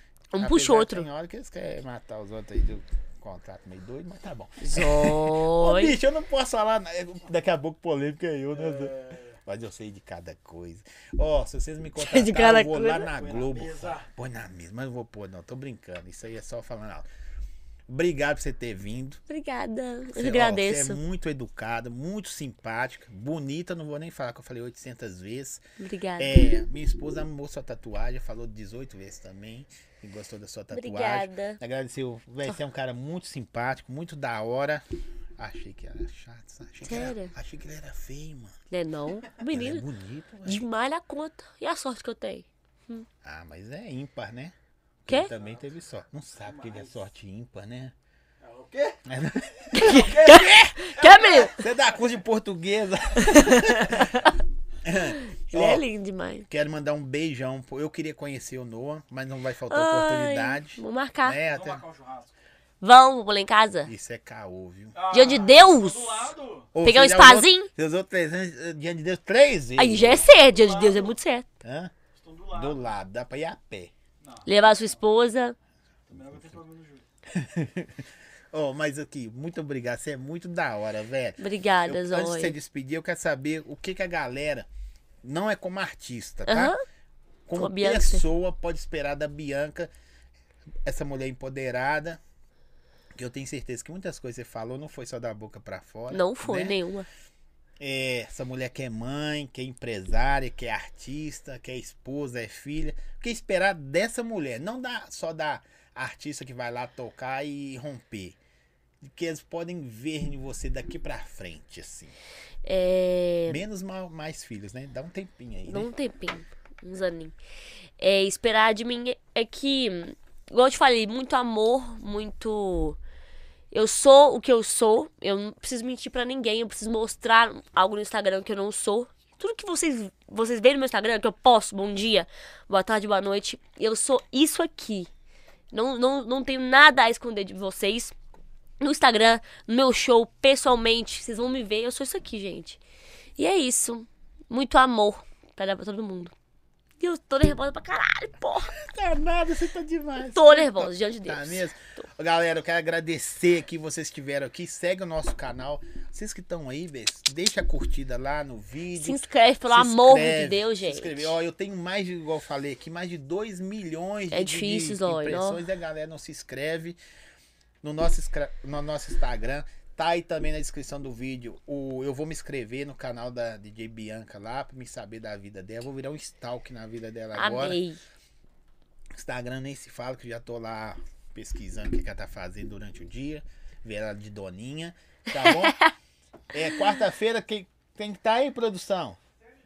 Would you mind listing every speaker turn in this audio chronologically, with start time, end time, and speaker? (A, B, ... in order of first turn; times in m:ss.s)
0:00.3-0:01.0 A
0:00.4-0:17.1 B
0:04.6-0:05.9 A
0:08.5-0:09.4 C
0:12.0-0:13.1 A
0:13.0-0:14.1 C
0:17.9-0:19.2 B
0:19.3-0:21.0 A
0:20.1-0:25.6 B
0:25.8-0:26.4 A
0:26.2-0:34.8 B
0:30.7-0:31.6 A
0:35.4-0:38.6 B
0:36.8-0:37.3 A
0:38.7-0:39.8 A
0:39.5-0:40.6 B
0:40.4-0:43.0 A
0:43.2-0:47.9 B
0:45.3-0:45.6 C
0:46.4-0:47.0 C
0:48.4-0:49.0 C
0:49.0-0:54.3 B
0:49.7-0:51.6 A
0:49.8-0:52.0 C
0:53.2-0:54.3 A
0:54.8-0:55.8 B
0:55.0-0:56.5 A
0:56.5-1:01.8 B
0:59.7-1:01.4 A
1:01.4-1:02.3 C
1:02.8-1:03.9 A
1:03.8-1:05.0 B
1:04.9-1:06.7 C
1:05.1-1:07.7 A
1:06.7-1:10.3 B
1:09.8-1:11.5 A
1:10.3-1:11.2 C
1:11.6-1:11.9 B
1:12.1-1:12.9 C
1:12.5-1:13.9 B
1:14.2-1:15.0 C
1:14.4-1:15.6 A
1:16.1-1:17.0 C
1:16.1-1:16.6 B
1:17.3-1:24.7 B
1:21.4-1:22.5 A
1:25.2-1:26.7 B
1:26.5-1:26.8 A
1:27.4-1:29.9 B
1:27.5-1:28.2 A
1:30.8-1:32.2 B
1:33.1-1:36.8 B
1:36.1-1:37.1 A
1:37.8-1:48.4 B
1:49.0-1:52.1 B
1:52.6-1:53.6 A
1:53.5-1:55.9 B
1:55.7-1:57.3 A
1:58.0-2:03.0 A
2:03.7-2:15.1 A
2:15.7-2:18.2 A
2:18.8-2:22.8 A
2:23.4-2:26.3 A
2:27.0-2:28.7 A
2:28.7-2:47.0 B
2:30.2-2:31.6 A
2:39.0-2:41.3 A
2:44.3-2:45.6 A
2:47.8-2:57.8 B
2:57.3-2:58.0 A
2:59.1-3:05.8 B
3:05.3-3:05.9 A
3:06.5-3:09.2 B